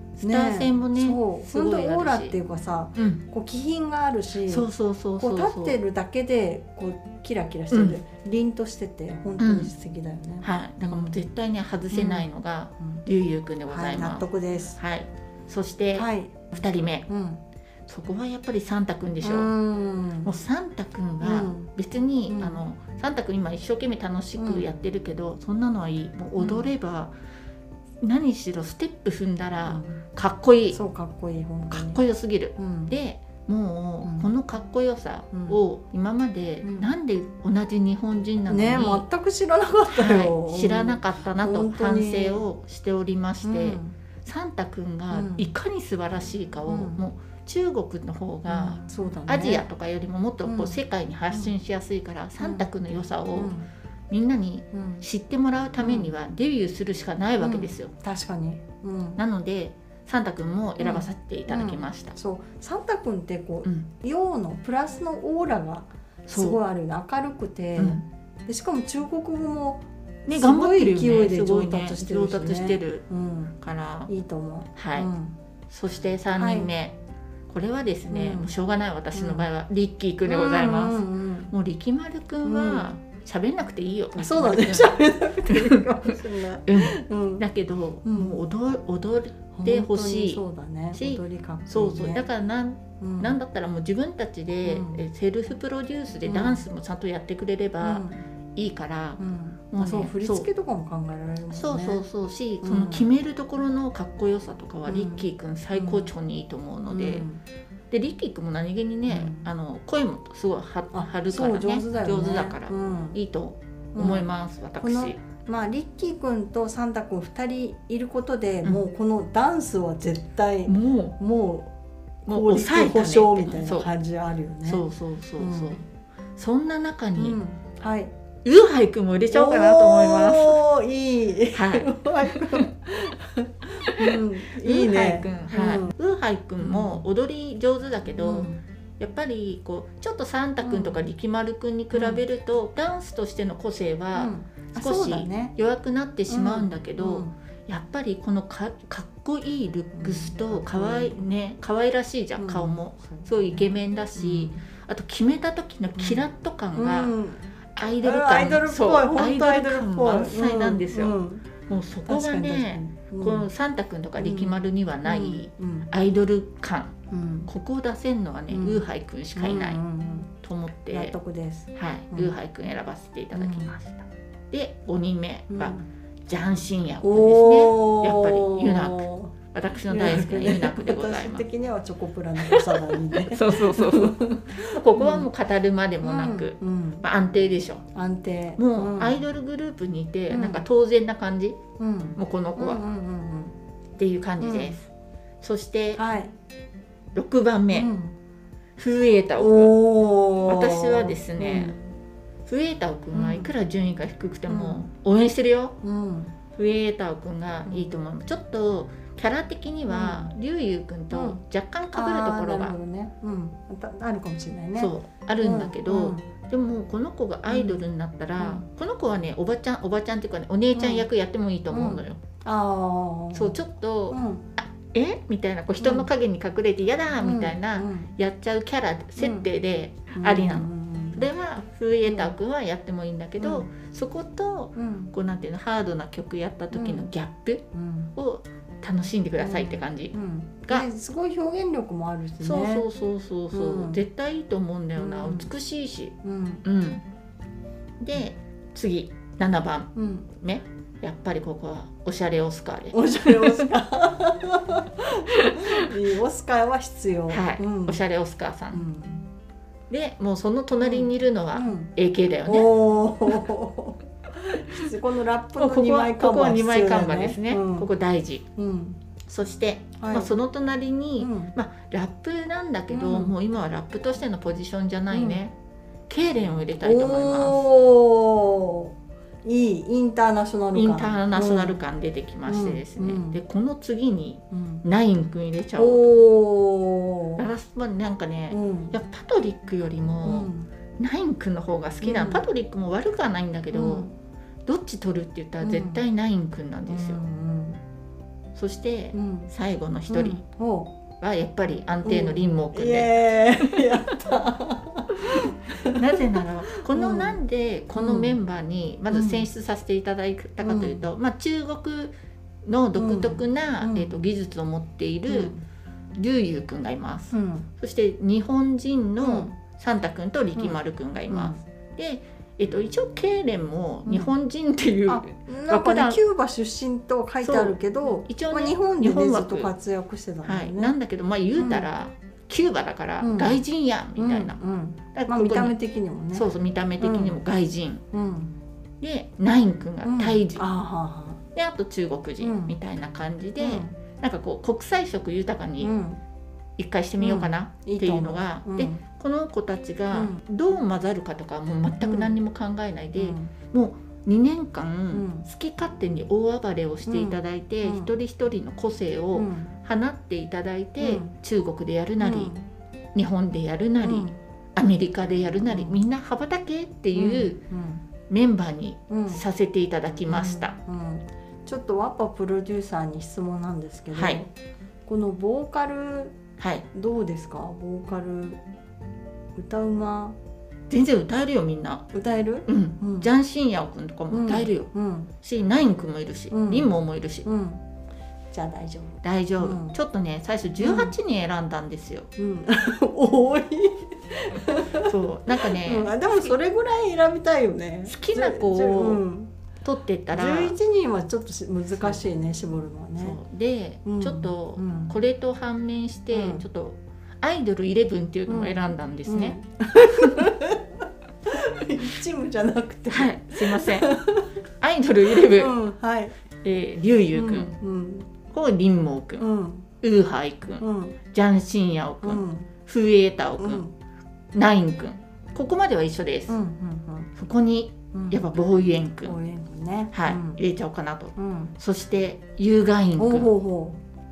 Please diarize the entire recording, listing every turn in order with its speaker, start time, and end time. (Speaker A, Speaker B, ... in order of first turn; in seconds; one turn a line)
Speaker A: 0.2-2.4
Speaker B: 0.2-11.2
Speaker A: 3.0-3.2
Speaker A: 4.5-5.8
Speaker A: 7.7-8.0
Speaker A: 9.4-9.7
Speaker A: 10.4-17.1
Speaker B: 11.9-12.3
Speaker B: 13.7-14.8
Speaker B: 15.9-16.5
Speaker B: 17.1-17.4
Speaker A: 17.9-19.5
Speaker B: 19.2-20.3
Speaker A: 20.2-27.1
Speaker B: 21.2-21.7
Speaker B: 22.3-22.6
Speaker B: 24.4-24.6
Speaker B: 26.4-26.7
Speaker A: 28.0-30.8
Speaker B: 29.7-30.0
Speaker B: 30.7-32.0
Speaker A: 31.7-39.0
Speaker B: 32.6-32.9
Speaker B: 34.0-34.3
Speaker B: 35.3-35.6
Speaker B: 36.6-36.9
Speaker B: 38.5-42.5
Speaker A: 39.9-53.5
Speaker B: 43.4-44.0
Speaker B: 45.1-45.5
Speaker B: 46.7-47.0
Speaker B: 48.5-49.6
Speaker B: 50.4-50.8
Speaker B: 52.4-52.7
Speaker B: 53.4-53.7
Speaker A: 54.1-57.9
Speaker B: 54.7-55.0
Speaker B: 55.8-56.1
Speaker B: 57.4-59.2
Speaker A: 59.2-62.1
Speaker B: 60.8-73.5
Speaker A: 66.3-66.6
Speaker A: 67.8-68.0
Speaker A: 70.2-73.0
Speaker A: 73.6-74.1
Speaker B: 74.1-75.3
Speaker A: 74.7-75.1
Speaker A: 75.7-77.0
Speaker B: 76.3-76.7
Speaker A: 77.5-90.4
Speaker B: 78.1-78.5
Speaker B: 79.1-79.5
Speaker B: 80.3-81.5
Speaker B: 82.4-82.9
Speaker B: 84.1-87.5
Speaker B: 88.0-88.4
Speaker B: 89.5-92.2
Speaker A: 90.9-99.2
Speaker B: 93.0-93.3
Speaker B: 94.6-95.0
Speaker B: 96.2-96.6
Speaker B: 97.8-98.2
Speaker B: 99.2-102.0
Speaker A: 99.7-100.5
Speaker A: 101.5-107.2
Speaker B: 102.6-103.1
Speaker B: 104.9-106.1
Speaker B: 106.9-107.4
Speaker A: 107.9-115.2
Speaker B: 109.1-109.5
Speaker B: 110.9-113.2
Speaker B: 113.9-114.3
Speaker B: 114.8-121.7
Speaker A: 120.7-121.2
Speaker B: 122.2-124.8
Speaker A: 122.3-123.9
Speaker A: 124.6-125.8
Speaker B: 125.4-125.8
Speaker A: 126.4-127.4
Speaker B: 127.2-128.1
Speaker A: 128.4-130.6
Speaker B: 129.3-135.9
Speaker A: 131.5-132.7
Speaker A: 134.0-157.1
Speaker B: 136.6-137.0
Speaker B: 138.2-138.6
Speaker B: 140.6-141.0
Speaker B: 141.9-142.2
Speaker B: 144.1-145.5
Speaker B: 146.3-147.3
Speaker B: 149.9-151.2
Speaker B: 152.4-154.6
Speaker B: 155.9-157.4
Speaker A: 157.8-169.8
Speaker B: 158.0-161.5
Speaker B: 162.1-163.5
Speaker B: 164.2-165.9
Speaker B: 167.1-167.5
Speaker B: 168.5-170.3
Speaker A: 170.4-171.2
Speaker B: 170.9-172.3
Speaker A: 171.7-181.4
Speaker B: 173.3-173.7
Speaker B: 175.5-175.8
Speaker B: 177.0-185.3
Speaker A: 182.4-187.8
Speaker B: 186.0-187.1
Speaker B: 187.9-189.2
Speaker A: 188.6-191.6
Speaker B: 190.3-190.7
Speaker B: 191.8-193.6
Speaker A: 192.2-192.8
Speaker A: 194.0-194.9
Speaker B: 194.4-194.8
Speaker A: 195.4-196.0
Speaker B: 195.9-196.3
Speaker A: 197.1-197.9
Speaker B: 197.7-198.2
Speaker A: 198.8-199.7
Speaker B: 199.4-201.9
Speaker A: 200.4-201.8
Speaker A: 202.4-205.8
Speaker B: 203.1-203.5
Speaker B: 204.5-204.8
Speaker B: 205.8-206.3
Speaker A: 206.6-212.8
Speaker B: 207.7-207.9
Speaker B: 209.9-210.3
Speaker B: 211.1-211.4
Speaker B: 211.9-216.3
Speaker A: 214.8-222.2
Speaker B: 217.5-217.8
Speaker B: 218.4-218.7
Speaker B: 220.7-221.1
Speaker B: 221.7-223.6
Speaker A: 223.3-237.6
Speaker B: 224.1-224.5
Speaker B: 225.8-226.1
Speaker B: 227.2-228.2
Speaker B: 229.2-229.5
Speaker B: 230.1-231.3
Speaker B: 232.1-232.3
Speaker B: 233.4-233.7
Speaker B: 234.8-235.1
Speaker B: 236.7-237.1
Speaker B: 237.7-238.1
Speaker A: 238.2-240.1
Speaker B: 239.4-242.9
Speaker A: 242.4-247.0
Speaker B: 243.5-244.0
Speaker B: 245.0-245.5
Speaker B: 246.2-246.6
Speaker A: 248.0-253.7
Speaker B: 249.9-250.3
Speaker B: 252.9-258.0
Speaker A: 255.4-255.9
Speaker A: 257.3-258.8
Speaker B: 258.7-259.2
Speaker A: 259.9-263.4
Speaker B: 260.8-261.9
Speaker B: 262.4-267.9
Speaker A: 264.7-264.9
Speaker A: 265.6-268.4
Speaker B: 268.6-269.0
Speaker A: 269.2-275.5
Speaker B: 270.0-270.3
Speaker B: 271.2-271.5
Speaker B: 272.9-273.3
Speaker B: 275.1-275.4
Speaker A: 276.1-277.7
Speaker B: 276.8-281.8
Speaker A: 280.7-286.1
Speaker B: 282.4-283.4
Speaker B: 284.5-284.9
Speaker B: 285.8-287.4
Speaker A: 287.4-294.1
Speaker B: 288.5-288.9
Speaker B: 290.2-290.7
Speaker B: 292.0-292.4
Speaker B: 293.7-294.1
Speaker A: 294.6-297.2
Speaker B: 295.6-296.0
Speaker B: 296.9-297.8
Speaker A: 298.5-300.4
Speaker B: 299.1-299.5
Speaker B: 300.1-300.9
Speaker A: 301.2-303.1
Speaker B: 302.0-307.4
Speaker A: 303.7-304.0
Speaker A: 305.9-312.1
Speaker B: 307.9-308.4
Speaker B: 309.1-309.5
Speaker B: 310.6-311.1
Speaker A: 312.6-315.5
Speaker B: 313.0-314.2
Speaker B: 315.3-315.6
Speaker A: 316.1-326.2
Speaker B: 317.3-317.7
Speaker B: 319.2-319.6
Speaker B: 321.3-321.6
Speaker B: 324.0-324.3
Speaker B: 325.1-330.9
Speaker A: 327.4-329.7
Speaker A: 330.4-334.6
Speaker B: 331.6-331.9
Speaker B: 333.2-333.6
Speaker B: 334.2-336.5
Speaker A: 335.1-335.8
Speaker A: 336.3-338.0
Speaker B: 337.0-337.4
Speaker B: 338.1-338.5
Speaker A: 339.0-340.6
Speaker B: 340.0-341.4
Speaker A: 341.5-345.9
Speaker B: 342.4-342.8
Speaker B: 343.6-343.9
Speaker B: 345.8-346.2
Speaker A: 346.8-362.5
Speaker B: 347.2-349.0
Speaker B: 350.1-350.4
Speaker B: 352.0-352.4
Speaker B: 353.2-353.5
Speaker B: 355.1-355.5
Speaker B: 357.1-358.1
Speaker B: 359.4-359.7
Speaker B: 361.0-361.3
Speaker B: 362.2-362.6
Speaker A: 363.1-367.6
Speaker B: 364.0-364.4
Speaker B: 365.7-366.0
Speaker B: 367.1-368.0
Speaker A: 368.3-370.8
Speaker B: 369.1-369.4
Speaker B: 370.3-374.5
Speaker A: 374.1-374.4
Speaker B: 375.1-376.4
Speaker A: 376.6-376.9
Speaker B: 376.9-378.6
Speaker B: 379.5-380.4
Speaker A: 380.9-382.1
Speaker B: 382.1-383.3
Speaker A: 382.7-384.9
Speaker B: 384.3-385.3
Speaker A: 385.4-387.5
Speaker B: 386.5-386.9
Speaker B: 387.4-387.8
Speaker B: 388.5-389.9
Speaker A: 389.2-392.3
Speaker B: 390.8-391.1
Speaker B: 392.4-399.5
Speaker A: 395.0-396.5
Speaker A: 398.1-399.2
Speaker A: 399.8-400.8
Speaker B: 400.3-403.4
Speaker A: 403.2-410.5
Speaker B: 404.0-405.1
Speaker B: 406.3-406.6
Speaker B: 408.5-410.9
Speaker B: 411.4-414.5
Speaker A: 413.1-414.2
Speaker A: 414.8-415.7
Speaker B: 415.3-416.4
Speaker A: 416.6-417.7
Speaker B: 417.3-418.3
Speaker A: 418.5-419.4
Speaker B: 419.4-419.9
Speaker A: 420.0-423.8
Speaker B: 420.8-421.2
Speaker B: 422.2-422.7
Speaker B: 423.6-423.9
Speaker A: 424.5-426.6
Speaker B: 426.5-427.3
Speaker A: 427.4-429.3
Speaker B: 428.1-428.5
Speaker B: 429.2-430.6
Speaker A: 430.1-433.5
Speaker B: 431.4-431.7
Speaker B: 433.2-434.0